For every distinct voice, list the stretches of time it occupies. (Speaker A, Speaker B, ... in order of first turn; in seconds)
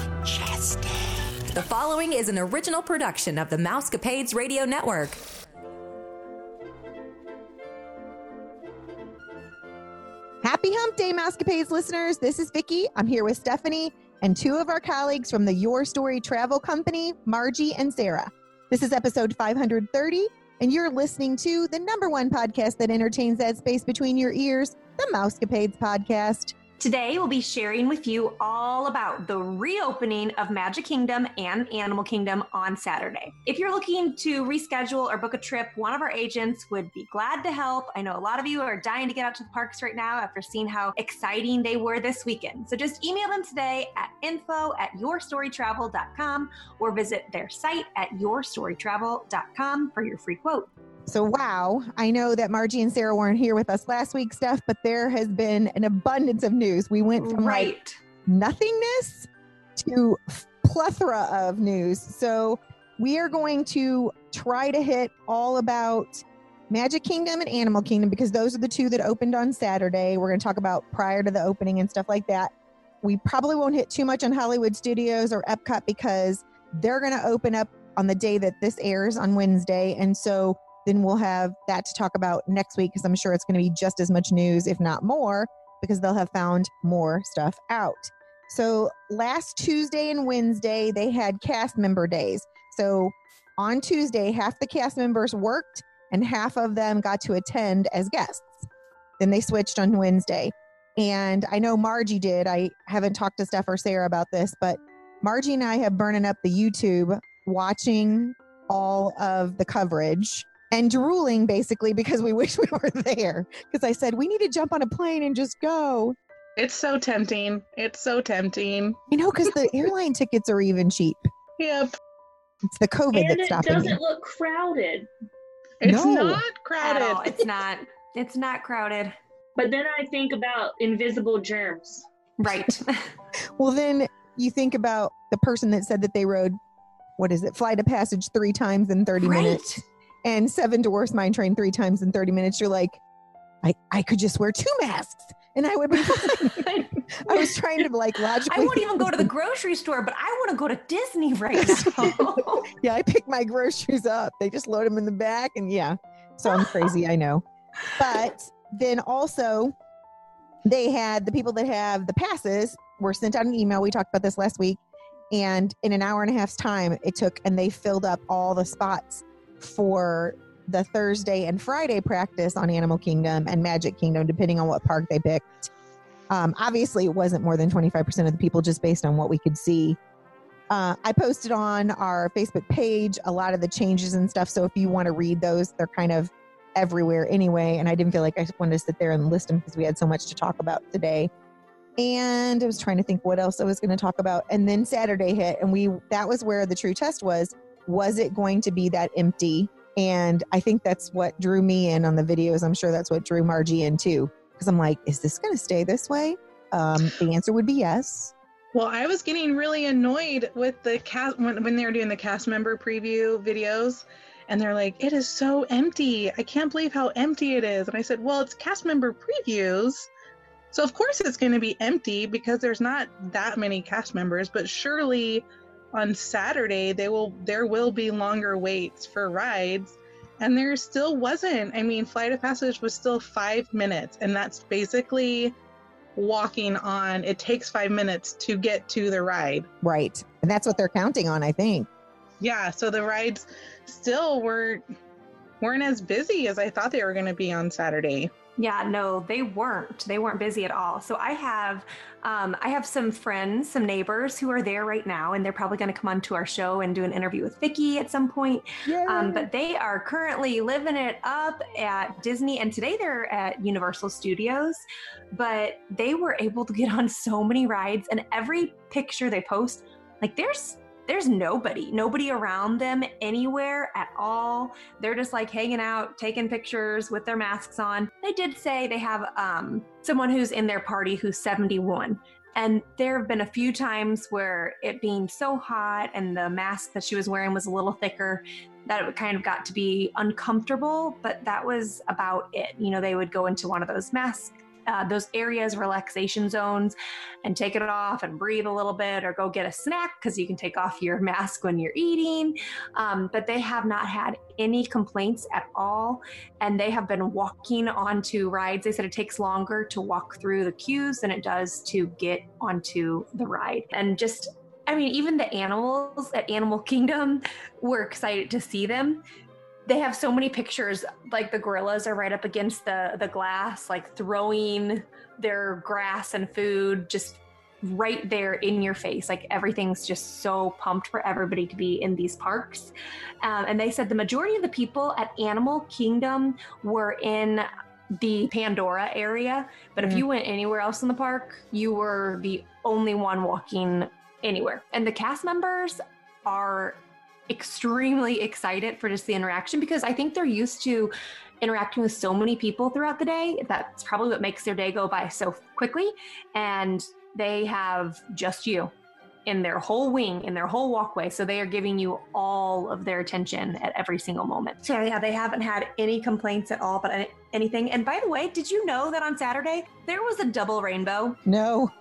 Speaker A: 0.2-5.2
Speaker B: 10.4-26.5, 51.1-57.7, 58.2-98.7, 99.2-116.2, 119.1-121.3, 122.7-124.0, 125.8-126.4, 133.6-136.6, 137.2-139.6, 140.2-143.0, 143.6-149.3, 151.6-157.4, 157.9-159.7, 160.6-164.8, 165.3-175.7, 176.3-180.0, 180.7-191.3, 192.0-208.3, 239.8-241.9, 258.9-259.5, 371.4-371.9
Speaker C: 26.8-50.7, 57.2-58.0, 126.8-129.1, 132.4-133.1, 139.2-139.8, 146.5-147.5, 148.4-152.7, 248.6-319.2, 319.9-332.9, 333.4-358.9, 359.4-371.4
Speaker D: 116.6-119.0, 121.6-121.9, 125.8-127.5, 208.7-220.1, 220.7-235.5, 236.1-239.7, 242.4-244.8, 245.6-248.3
Speaker E: 123.1-125.1, 129.6-132.1